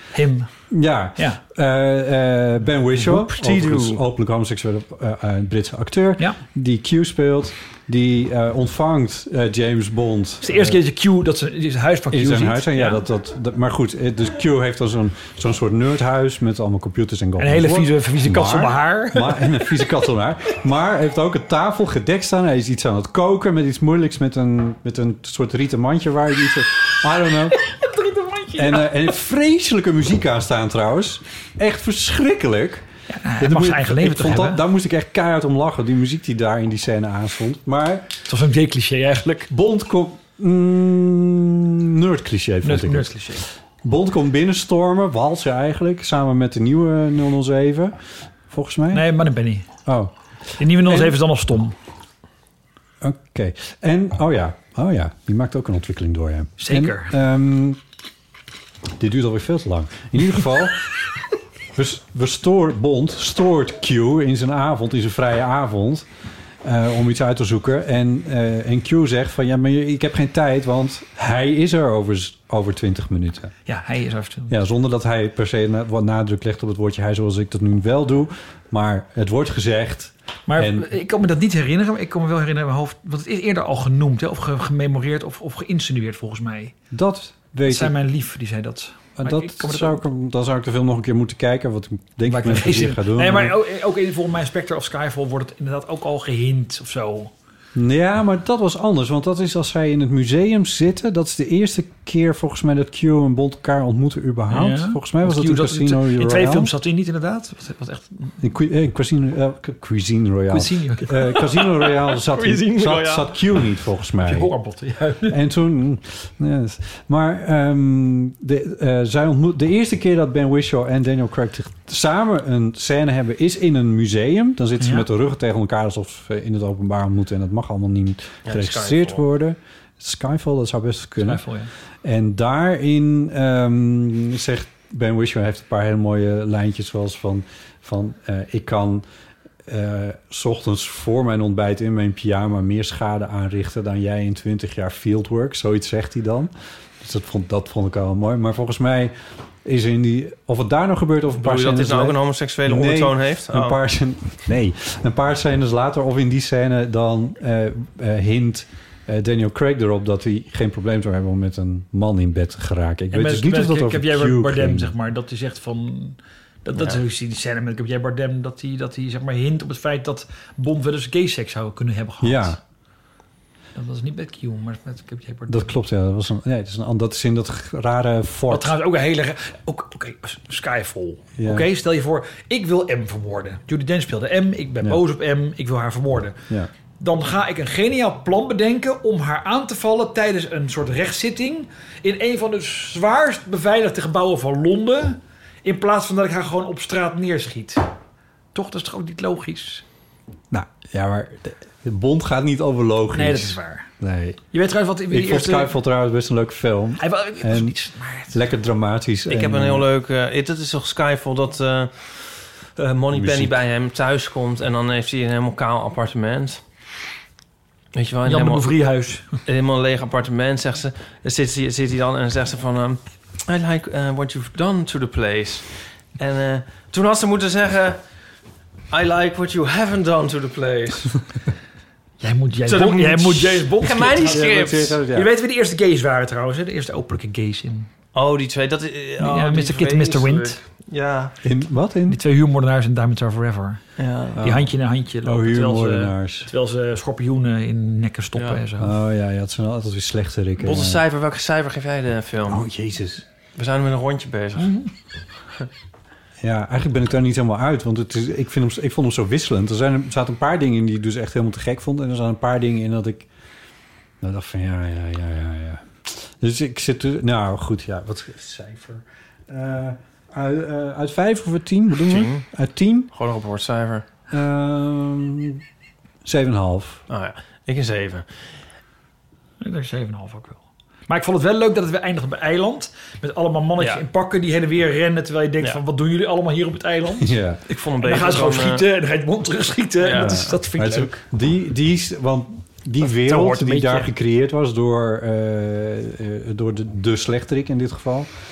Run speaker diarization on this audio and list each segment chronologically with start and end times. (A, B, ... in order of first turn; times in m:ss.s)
0:00.1-0:00.5 A
0:00.7-0:10.8 B
0:03.0-0:04.0 C
0:10.4-0:13.0 A
0:12.1-0:27.6 B
0:17.4-0:19.8 A
0:27.6-0:29.1 A
0:28.6-0:32.9 B
0:33.1-0:34.6 A
0:33.4-0:38.1 B
0:38.3-0:39.5 A
0:39.5-0:48.0 B
0:42.6-0:43.4 A
0:48.5-0:49.1 B
0:48.9-0:49.7 A
0:49.9-0:50.1 B
0:50.6-0:51.8 A
0:50.7-0:51.2 B
0:53.0-0:57.8 B
0:56.6-0:57.1 A
0:59.0-1:00.9 B
1:01.8-1:06.1 B
1:06.6-1:13.5 B
1:13.7-1:14.6 A
1:14.5-1:20.9 B
1:20.5-1:26.7 A
1:26.9-1:28.0 B
1:27.6-1:30.0 A
1:29.2-1:33.6 B
1:32.3-1:37.3 A
1:37.8-1:46.7 B
1:44.5-1:48.3 A
1:48.4-1:54.5 B
1:50.5-1:51.2 A
1:51.4-1:53.4 C
1:54.2-1:55.4 A
1:55.3-2:11.4 B
2:04.8-2:05.1 A
2:08.5-2:09.2 C
2:11.2-2:11.7 A
2:12.0-2:19.0 B
2:19.7-2:44.9 B
2:31.4-2:33.8 C
2:43.1-2:52.6 A
2:52.2-2:52.6 B
2:53.8-2:55.8 A
2:55.5-2:58.8 B
2:58.5-3:06.4 A
3:01.4-3:01.7 B
3:07.0-3:17.9 A
3:18.5-3:19.8 A
3:20.5-3:24.4 B
3:23.1-3:23.9 A
3:24.5-3:25.8 A
3:25.1-3:27.8 B
3:27.0-3:28.4 A
3:28.3-3:29.9 B
3:29.3-3:32.2 C
3:32.8-3:36.6 C
3:33.1-3:33.6 B
3:38.0-3:38.7 C
3:38.3-3:39.4 A
3:39.5-3:48.0 C
3:48.9-3:51.2 C
3:52.2-3:57.9 A
3:52.7-3:55.0 C
3:54.2-3:55.3 B
3:58.2-4:01.4 C
3:59.2-4:00.6 A
4:01.4-4:02.2 B
4:02.1-4:03.8 A
4:04.0-4:04.4 C
4:04.4-4:04.7 B
4:04.4-4:08.9 A
4:05.2-4:06.5 B
4:08.8-4:11.0 B
4:10.6-4:12.7 C
4:12.5-4:13.2 B
4:13.6-4:14.7 C
4:14.6-4:14.9 A
4:16.4-4:23.3 B
4:24.2-4:33.1 B
4:32.1-4:32.4 C
4:33.1-4:34.1 C
4:34.3-4:35.6 B
4:36.2-4:37.0 B
4:37.1-4:38.3 C
4:39.6-4:47.4 A
4:47.2-4:47.6 B
4:47.7-4:48.9 C
4:48.0-4:51.2 A
4:50.0-4:50.5 C
4:50.2-4:58.3 B
4:53.0-4:54.1 A